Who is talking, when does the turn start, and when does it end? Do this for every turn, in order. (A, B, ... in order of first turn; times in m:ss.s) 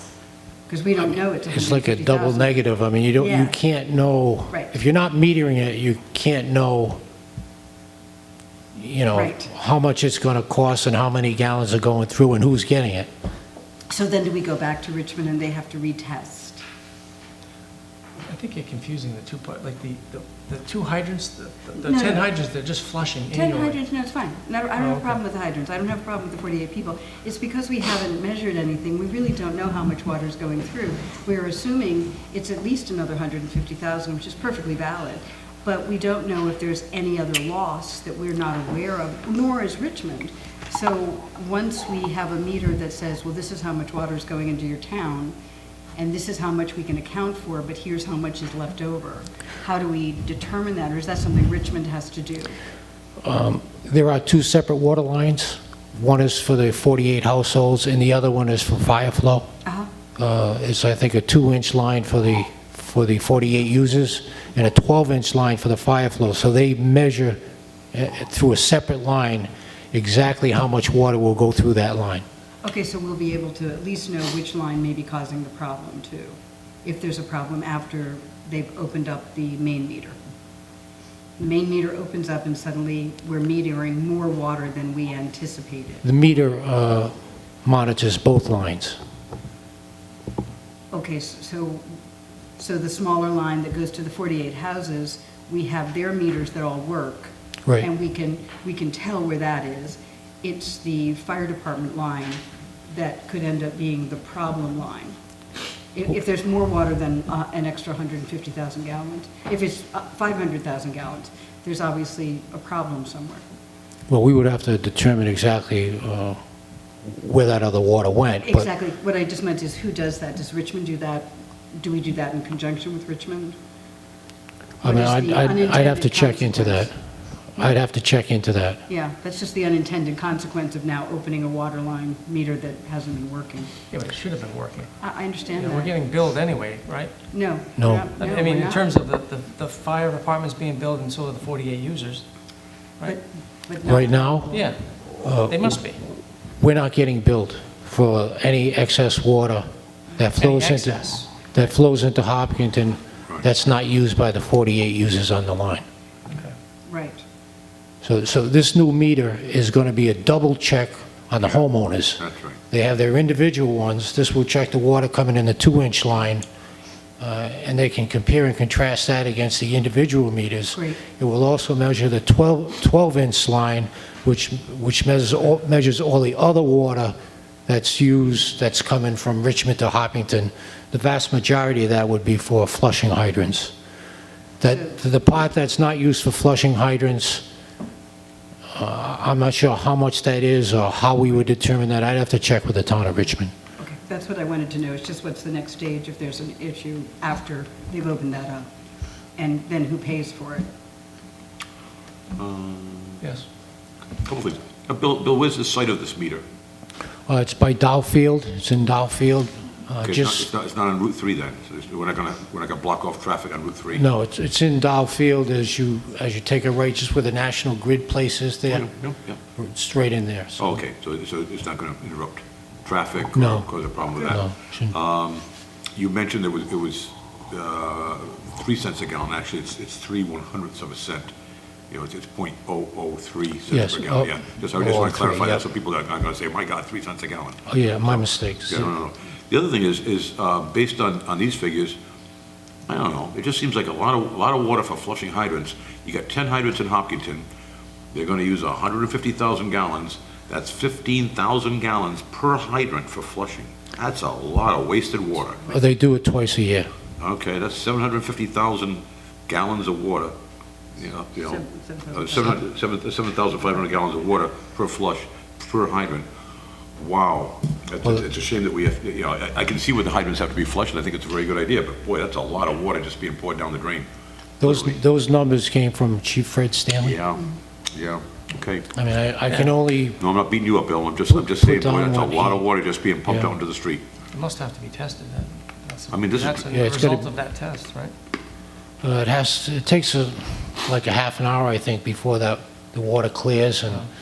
0:00.7-0:02.6 A
0:01.5-0:07.0 B
0:03.2-0:03.6 A
0:08.8-0:13.1 B
0:09.1-0:09.5 A
0:13.9-0:16.6 A
0:18.2-0:23.8 C
0:21.8-0:22.2 A
0:23.3-0:45.3 A
0:24.8-0:25.2 C
0:46.0-0:52.6 A
0:53.2-0:59.5 B
1:00.2-1:07.4 B
1:07.9-1:12.2 B
1:12.6-1:20.2 A
1:21.4-1:26.0 A
1:26.0-1:27.1 B
1:27.6-1:29.0 B
1:30.9-1:31.8 A
1:32.6-1:45.2 A
1:45.9-1:53.4 A
1:54.1-1:56.4 B
1:57.0-1:58.7 B
1:58.4-2:03.6 A
2:04.8-2:06.9 A
2:04.8-2:07.0 B
2:07.5-2:08.8 B
2:08.9-2:13.7 A
2:13.9-2:14.9 C
2:15.0-2:15.9 A
2:15.5-2:17.1 C
2:17.3-2:18.8 A
2:17.8-2:18.1 B
2:18.2-2:22.2 C
2:23.0-2:24.6 A
2:23.8-2:24.6 B
2:24.5-2:24.8 C
2:25.2-2:25.8 B
2:25.3-2:26.0 C
2:26.6-2:29.7 B
2:30.2-2:35.8 B
2:30.4-2:31.3 C
2:36.9-2:37.2 A
2:38.0-2:46.4 B
2:42.2-2:42.6 D
2:47.2-2:57.1 B
2:50.7-2:51.0 A
2:57.7-3:03.7 B
3:04.6-3:07.4 B
3:08.7-3:13.5 B
3:13.8-3:18.7 A
3:19.4-3:20.7 A
3:22.3-3:23.2 D
3:23.2-3:23.4 C
3:24.2-3:26.4 D
3:27.3-3:30.5 B
3:30.0-3:34.0 D
3:34.0-3:38.9 B
3:38.7-3:39.4 D
3:39.6-3:40.8 B
3:40.6-3:45.4 D
3:43.3-3:44.9 B
3:45.9-3:51.3 D
3:51.9-4:02.0 D
3:53.7-3:55.6 B
3:57.7-3:58.9 B
4:02.9-4:07.4 D
4:08.1-4:15.6 D
4:15.7-4:16.9 B
4:17.2-4:20.3 D
4:21.0-4:26.3 D
4:21.4-4:22.6 A
4:27.0-4:34.1 D
4:34.6-4:37.2 B
4:34.6-4:34.9 D
4:37.0-4:38.9 D
4:38.9-4:40.2 B
4:39.5-4:39.7 C
4:40.2-4:44.0 D
4:41.3-4:42.6 B
4:43.3-4:43.5 B
4:44.3-4:48.1 C
4:46.1-4:46.8 D
4:46.7-4:47.3 B
4:49.0-4:54.0 B